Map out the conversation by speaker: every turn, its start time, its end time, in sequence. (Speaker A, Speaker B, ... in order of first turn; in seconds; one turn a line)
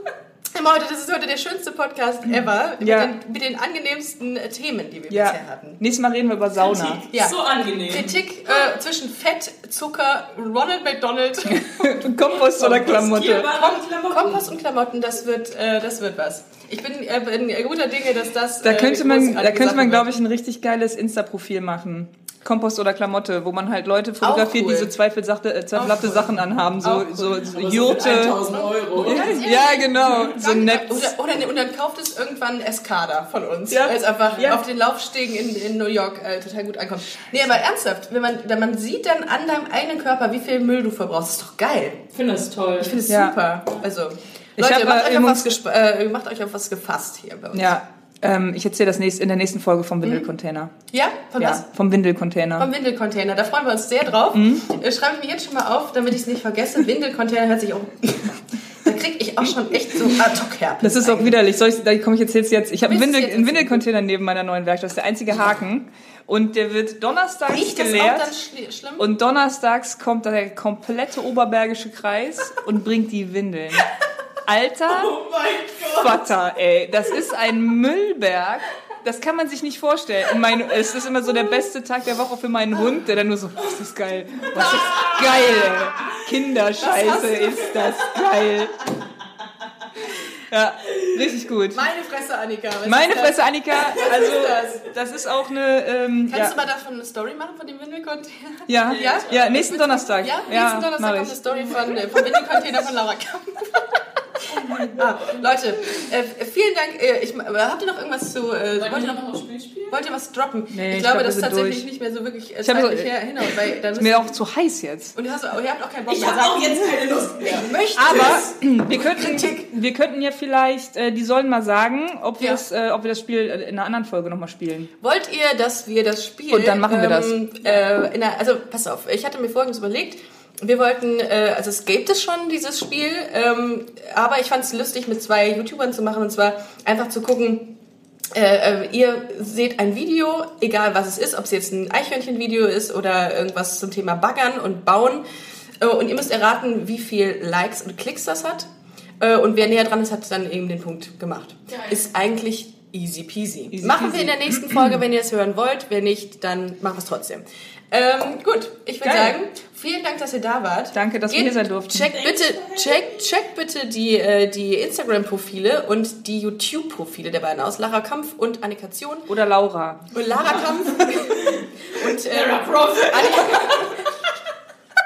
Speaker A: 0.5-5.8
Speaker B: 2.8-3.1
Speaker B: 5.1-7.0
Speaker C: 6.6-8.2
Speaker A: 7.9-11.7
Speaker B: 11.5-13.5
Speaker C: 12.2-14.5
Speaker A: 13.5-20.1
Speaker B: 18.6-28.4
Speaker A: 24.2-24.9
Speaker A: 25.7-26.3
Speaker A: 26.8-27.5
Speaker C: 27.4-29.4
Speaker A: 28.5-42.0
Speaker B: 29.0-31.1
Speaker B: 33.7-34.6
Speaker C: 42.1-43.0
Speaker A: 42.8-47.8
Speaker B: 43.1-43.4
Speaker B: 44.6-45.6
Speaker B: 47.5-50.7
Speaker A: 50.9-51.6
Speaker B: 51.4-52.7
Speaker A: 52.6-61.4
Speaker B: 54.3-54.6
Speaker B: 60.8-68.3
Speaker A: 62.8-63.8
Speaker A: 67.5-69.1
Speaker B: 69.0-73.9
Speaker B: 74.5-75.1
Speaker C: 74.9-76.4
Speaker B: 75.9-88.7
Speaker A: 84.6-85.1
Speaker C: 84.6-86.0
Speaker A: 86.8-87.8
Speaker B: 90.5-91.9
Speaker A: 91.7-94.9
Speaker B: 92.8-96.5
Speaker A: 96.3-109.2
Speaker B: 98.7-101.6
Speaker C: 98.8-99.7
Speaker B: 104.5-104.9
Speaker C: 108.7-110.0
Speaker A: 109.9-114.4
Speaker B: 110.7-111.8
Speaker B: 112.6-113.1
Speaker B: 113.9-115.1
Speaker A: 115.1-116.9
Speaker C: 116.1-118.4
Speaker A: 117.4-119.7
Speaker B: 117.9-124.9
Speaker A: 125.0-137.8
Speaker B: 126.5-127.4
Speaker A: 138.3-145.2
Speaker A: 145.8-148.7
Speaker A: 149.2-169.3
Speaker C: 151.7-152.0
Speaker B: 153.7-155.0
Speaker B: 159.0-159.4
Speaker B: 160.9-162.1
Speaker C: 162.0-163.3
Speaker B: 169.3-170.1
Speaker A: 170.1-174.3
Speaker C: 170.4-174.1